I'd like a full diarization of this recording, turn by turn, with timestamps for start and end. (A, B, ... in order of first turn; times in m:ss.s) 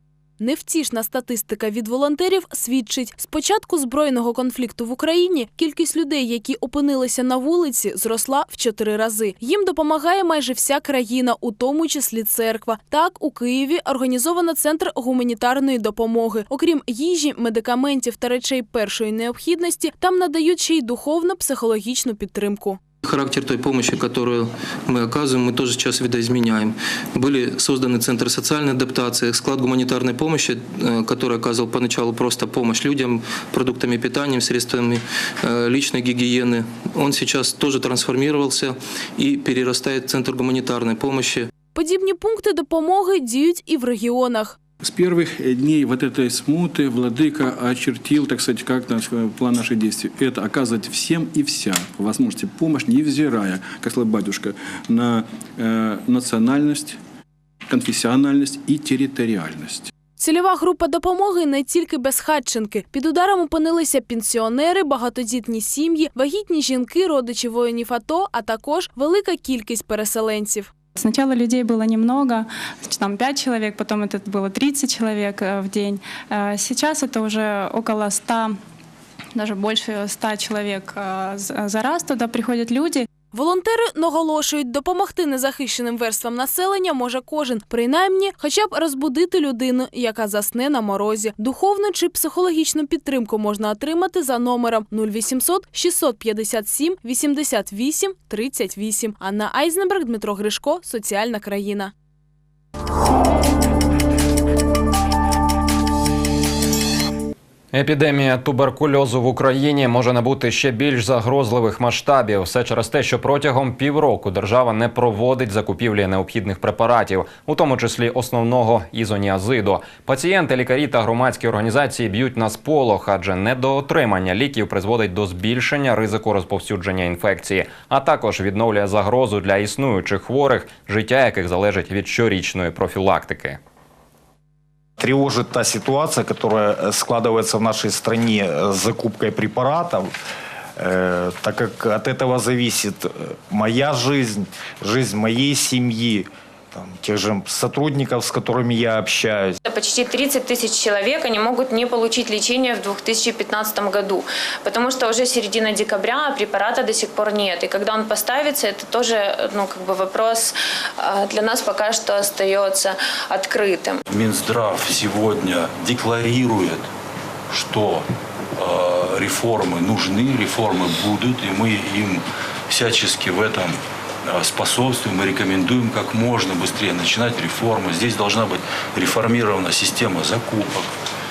0:00.4-0:22.8 A
0:23.0-0:41.5 B
0:41.8-0:44.6 A
0:44.8-0:57.0 C
0:57.7-0:59.9 C
1:00.2-1:10.7 A
1:11.0-1:18.6 D
1:19.4-1:23.1 D
1:23.3-1:41.9 A
1:47.7-2:13.6 E
2:15.0-2:20.1 F
2:20.8-2:29.6 F
2:29.6-2:44.0 G
2:44.1-2:46.9 H
2:47.5-3:00.9 H